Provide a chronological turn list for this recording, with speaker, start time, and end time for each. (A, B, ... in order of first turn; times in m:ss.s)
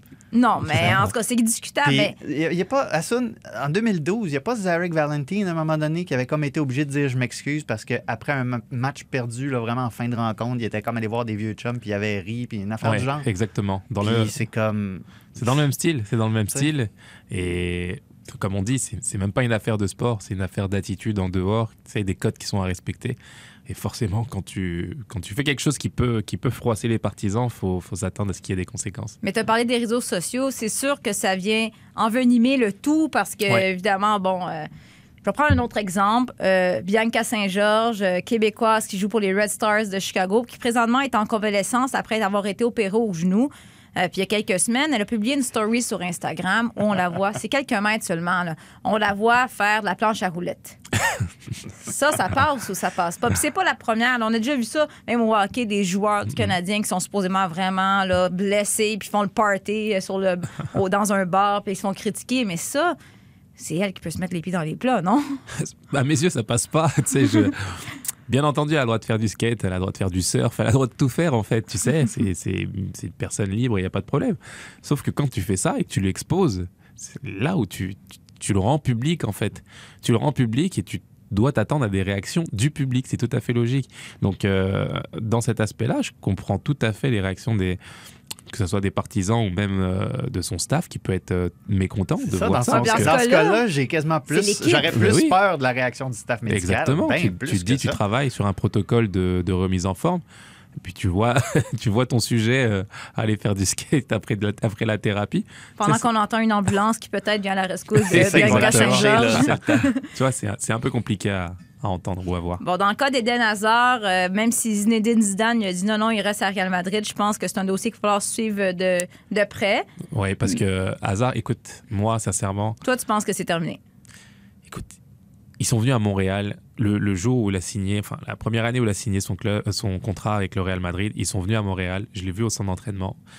0:00.3-0:02.1 A
0:00.6-0:01.1 B
0:01.8-0:13.3 B
0:12.8-0:14.3 C
0:14.0-0:15.7 B
0:15.4-0:29.2 C
0:29.2-0:34.7 A
0:35.2-0:50.8 A
0:51.8-1:03.0 A
1:03.6-1:05.4 A
1:05.5-1:27.8 C
1:28.5-1:33.1 C
1:32.2-1:38.0 B
1:32.7-1:33.6 A
1:34.3-1:35.0 A
1:34.9-1:35.3 C
1:36.5-1:40.2 C
1:40.8-1:46.0 C
1:45.8-1:50.0 A
1:48.1-1:52.6 C
1:48.1-1:49.8 B
1:52.6-1:59.8 A
2:00.1-2:02.8 C
2:02.8-2:03.8 A
2:04.7-2:04.9 C
2:05.6-2:13.2 C